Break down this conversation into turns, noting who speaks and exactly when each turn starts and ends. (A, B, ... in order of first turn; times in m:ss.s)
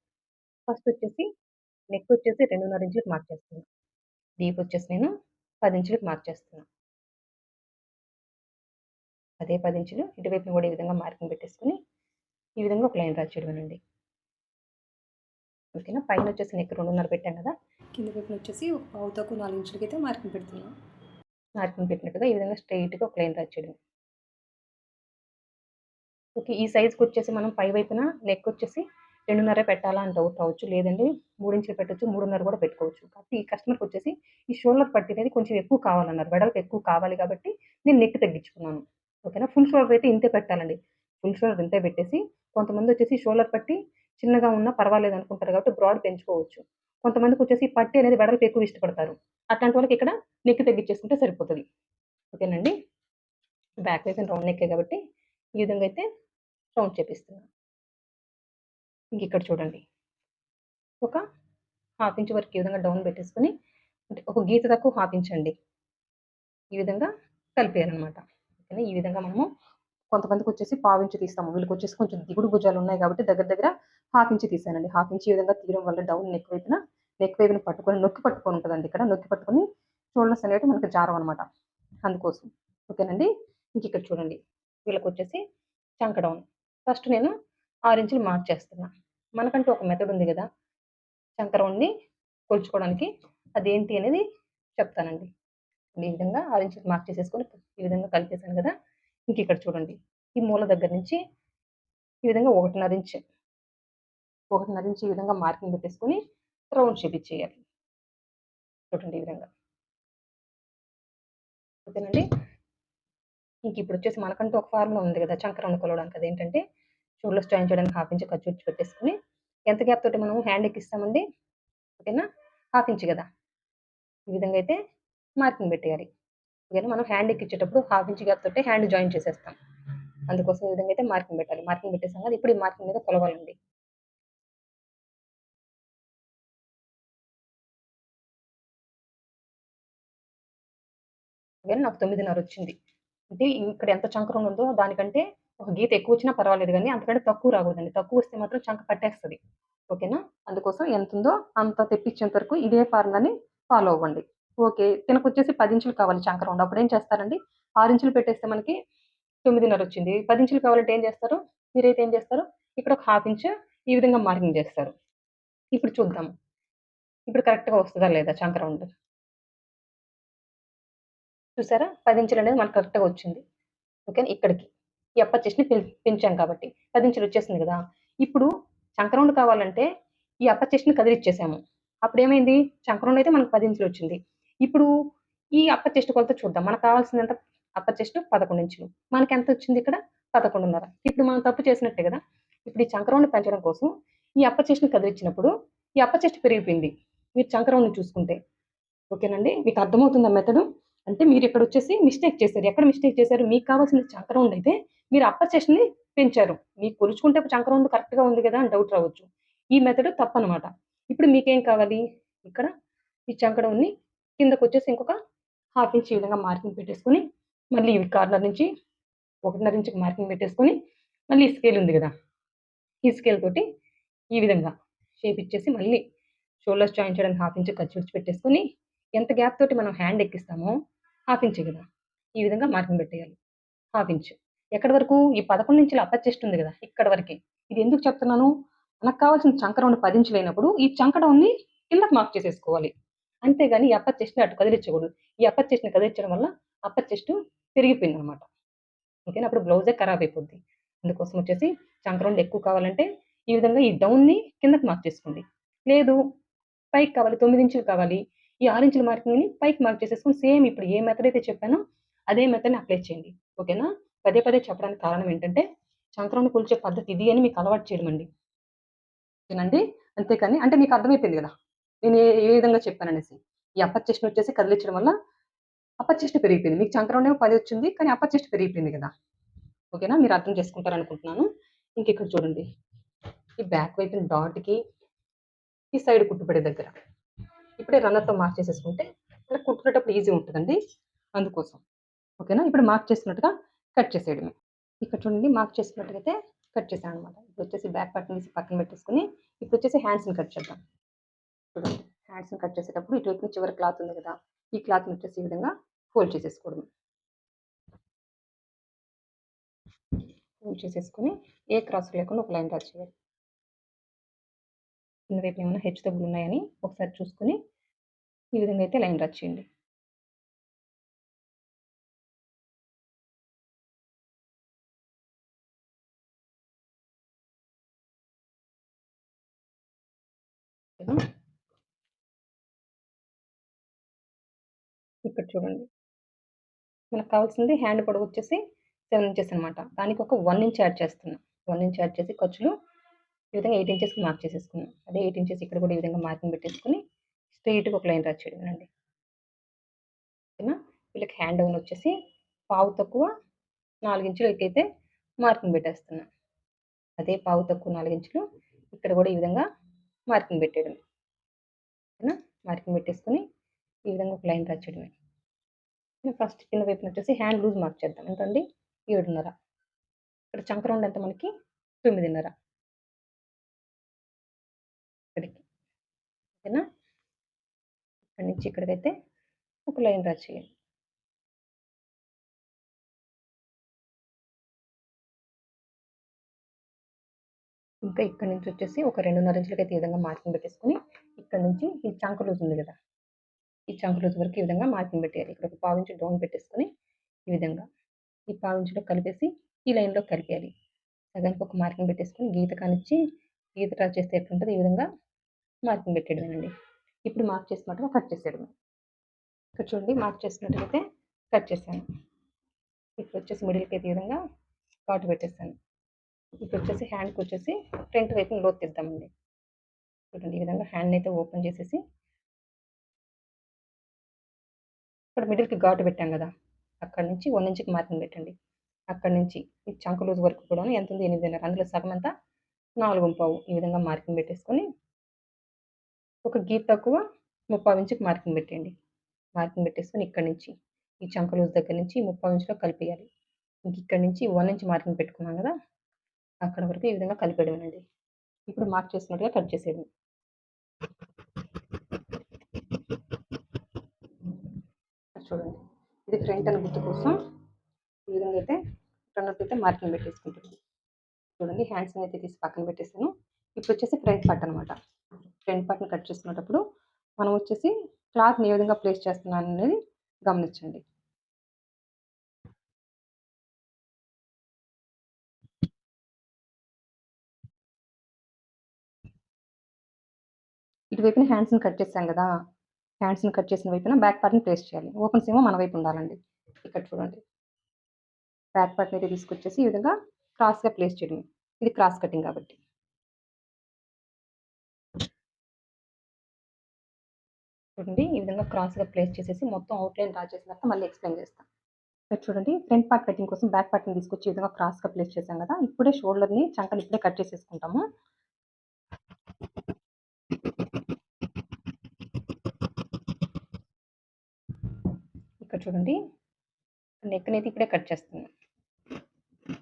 0:00.7-0:01.2 A
0:01.9-0:03.6 A
0:04.4-0:05.1 A
0:05.6-0:06.6 A
0:09.4-0:11.8 A
0:12.6-0:13.8 A
0:15.7-0:20.7 A
0:21.6-0:23.8 A
0:26.4-0:51.6 A
0:52.3-0:52.7 A
0:53.8-0:55.0 A
0:55.6-0:56.0 A
0:56.7-0:57.4 A
0:59.1-0:59.8 A
1:02.0-1:03.5 A
1:04.1-1:05.5 A
1:06.7-1:09.5 A
1:10.1-1:19.6 A
1:20.1-1:21.4 A
1:22.0-1:25.4 A
1:26.0-1:27.3 A
1:27.9-1:30.5 A
1:31.4-1:31.9 A
1:32.5-1:34.2 A
1:34.8-1:35.3 A
1:36.0-1:38.7 A
1:39.3-1:41.2 A
1:42.2-1:43.2 A
1:44.5-1:46.2 A
1:46.7-1:47.6 A
1:48.9-1:49.5 A
1:51.9-1:52.2 A
1:53.6-1:56.6 A
1:57.2-1:59.1 A
1:59.7-2:01.2 A
2:02.0-2:03.2 A
2:04.3-2:04.8 A
2:05.4-2:06.1 A
2:06.7-2:09.6 A
2:10.3-2:13.5 A
2:21.6-2:22.7 A
2:23.3-2:29.4 A
2:29.9-2:38.7 A
2:39.4-2:44.9 A
2:45.7-2:46.3 A
2:47.3-2:48.9 A
2:51.6-2:53.4 A
2:54.1-2:54.7 A
2:55.2-2:59.8 A
3:00.4-3:04.9 A
3:05.6-3:13.9 A
3:14.4-3:18.4 A
3:19.1-3:32.7 A
3:33.3-3:35.1 A
3:35.8-3:38.7 A
3:39.4-3:40.7 A
3:41.3-3:42.1 A
3:43.0-3:43.6 A
3:44.3-3:46.0 A
3:46.6-3:48.6 A
3:49.2-3:50.7 A
3:51.3-3:51.8 A
3:52.4-3:53.4 A
3:53.9-3:58.5 A
3:59.0-4:02.9 A
4:03.4-4:08.4 A
4:09.3-4:16.2 A
4:16.9-4:25.6 A
4:26.2-4:28.3 A
4:29.5-4:31.5 A
4:32.0-4:35.1 A
4:36.0-4:39.1 A
4:39.9-4:41.5 A
4:42.0-4:42.6 A
4:43.6-4:44.8 A
4:45.9-4:46.9 A
4:47.8-4:50.8 A
4:51.4-4:51.8 A
4:52.4-5:00.8 A
5:01.7-5:06.8 A
5:10.6-5:13.1 A
5:15.3-5:17.6 A
5:18.5-5:19.6 A
5:35.2-5:35.8 A
5:37.1-5:38.6 A
5:39.1-5:42.7 A
5:43.5-5:47.0 A
5:47.5-5:48.9 A
5:50.6-5:52.1 A
5:52.7-5:53.3 A
5:54.0-5:54.8 A
5:55.4-5:56.3 A
5:57.2-5:59.6 A
6:00.3-6:01.0 A
6:02.2-6:03.4 A
6:04.1-6:05.1 A
6:06.2-6:09.5 A
6:10.5-6:11.5 A
6:12.0-6:12.5 A
6:15.4-6:15.6 A
6:18.3-6:19.1 A
6:19.9-6:20.6 A
6:28.0-6:32.9 A
6:33.9-6:36.9 A
6:37.5-6:37.8 A
6:38.5-6:40.7 A
6:41.3-6:43.2 A
6:43.8-6:45.0 A
6:45.8-6:46.7 A
6:47.2-6:48.7 A
6:49.8-6:51.0 A
6:51.5-6:52.0 A
6:53.2-6:54.4 A
6:55.1-6:55.7 A
6:56.6-6:59.3 A
7:00.3-7:02.0 A
7:05.4-7:06.5 A
7:07.0-7:08.5 A
7:09.1-7:12.3 A
7:13.0-7:14.8 A
7:16.4-7:17.2 A
7:17.7-7:18.9 A
7:19.6-7:23.3 A
7:23.9-7:25.7 A
7:26.6-7:28.0 A
7:28.7-7:30.1 A
7:35.4-7:37.4 A
7:38.3-7:38.8 A
7:39.3-7:40.7 A
7:41.6-7:44.9 A
7:45.6-7:46.8 A
7:47.4-7:49.9 A
7:50.4-7:51.0 A
8:01.1-8:02.5 A
8:03.2-8:07.4 A
8:08.7-8:12.8 A
8:18.0-8:21.6 A
8:22.3-8:28.0 A
8:35.6-8:36.2 A
8:37.2-8:38.5 A